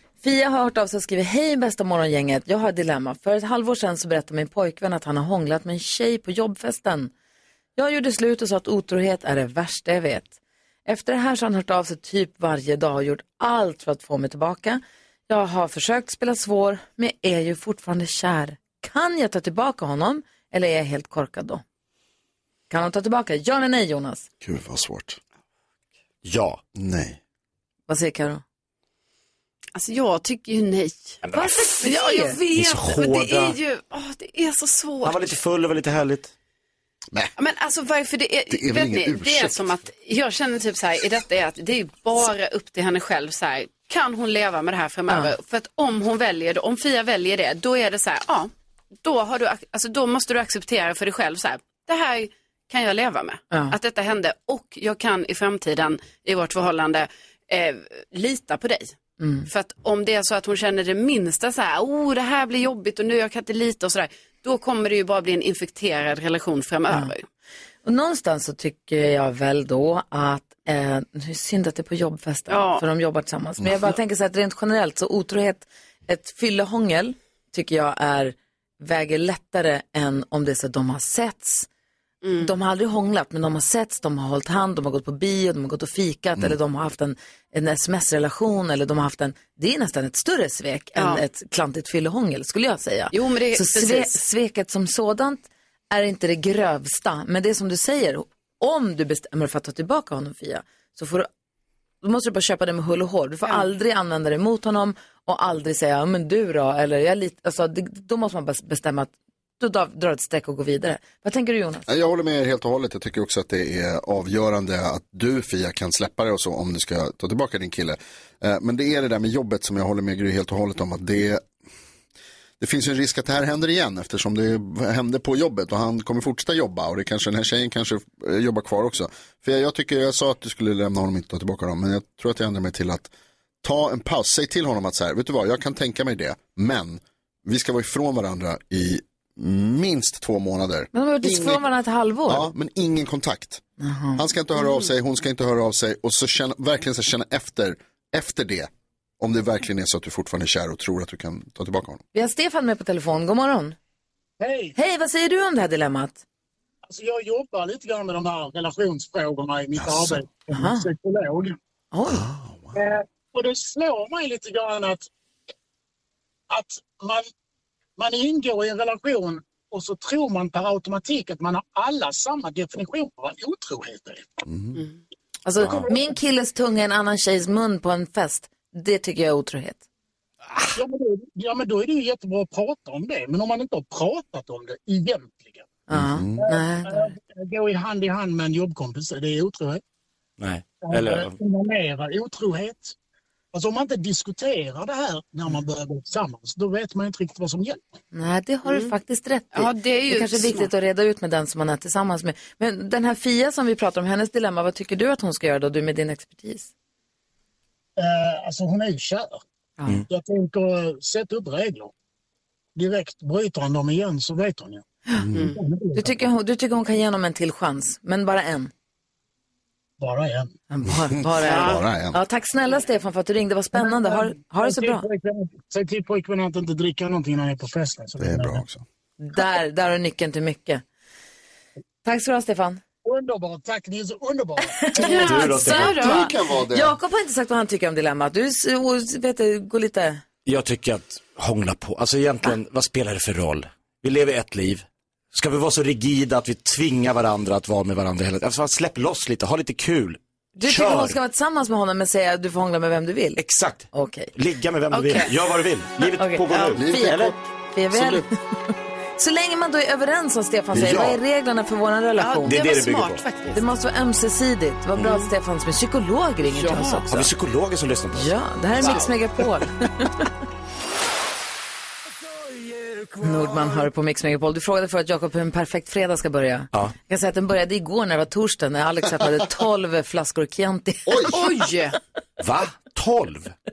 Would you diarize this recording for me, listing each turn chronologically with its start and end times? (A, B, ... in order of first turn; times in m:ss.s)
0:00.2-0:07.1 A
0:07.8-0:10.3 A
0:10.8-0:21.6 A
0:22.7-0:24.3 A
0:24.4-0:25.2 B
0:26.2-0:26.6 C
0:26.8-0:27.2 B
0:27.9-0:28.4 A
0:29.7-0:35.4 D
0:31.2-0:31.7 C
0:31.3-0:32.4 A
0:32.5-0:33.6 C
0:35.0-0:36.3 C
0:37.4-0:48.5 D
0:38.5-0:39.6 B
0:49.0-1:07.2 D
0:59.2-0:59.5 A
1:07.8-1:21.7 A
1:12.5-1:12.8 D
1:22.2-1:22.5 D
1:22.4-1:41.3 A
1:31.0-1:31.2 D
1:33.1-1:34.2 D
1:42.0-1:51.9 A
1:51.9-2:01.4 B
2:02.6-2:21.6 B
2:20.9-2:22.5 A
2:22.3-2:23.6 B
2:23.8-2:24.2 A
2:24.2-2:32.0 B
2:32.1-2:33.8 A
2:34.4-2:34.8 E
2:34.7-2:36.2 A
2:36.9-2:41.6 E
2:39.8-2:40.2 B
2:40.5-2:40.9 A
2:41.9-2:42.2 A
2:42.0-2:42.8 B
2:42.7-2:45.1 E
2:46.5-2:47.3 E
2:48.0-2:54.4 E
2:54.5-2:54.8 B
2:55.4-2:59.8 A
3:00.8-3:05.7 E
3:05.9-3:07.1 A
3:05.9-3:06.4 B
3:06.4-3:09.8 E
3:10.4-3:11.4 C
3:10.8-3:12.9 E
3:13.5-3:17.8 E
3:18.1-3:26.7 A
3:18.6-3:18.9 D
3:19.5-3:20.7 D
3:28.0-3:29.4 E
3:29.8-3:30.0 A
3:30.1-3:31.9 E
3:32.8-3:34.8 E
3:35.2-3:35.5 B
3:35.3-3:35.6 D
3:35.5-3:36.2 E
3:35.9-3:38.7 A
3:40.0-3:40.6 E
3:40.7-3:45.0 A
3:41.1-3:42.2 B
3:41.4-3:41.8 D
3:43.7-3:48.6 E
3:48.2-3:48.8 B
3:49.2-3:50.8 A
3:52.0-3:52.8 A
3:53.0-3:55.4 E
3:54.6-4:00.2 A
3:55.0-3:56.3 D
3:55.1-3:56.0 C
3:55.9-3:57.0 B
4:00.4-4:11.2 C
4:10.6-4:13.4 A
4:13.4-4:17.3 C
4:13.9-4:14.3 A
4:14.9-4:15.3 D
4:16.2-4:18.3 A
4:16.7-4:17.4 B
4:17.9-4:18.2 B
4:19.2-4:22.6 A
4:20.7-4:21.2 C
4:22.2-4:23.6 D
4:22.4-4:23.2 C
4:23.5-4:27.3 A
4:24.9-4:25.2 C
4:26.6-4:29.0 C
4:28.1-4:30.3 A
4:33.2-4:41.4 A
4:41.3-4:42.0 D
4:42.4-4:43.5 C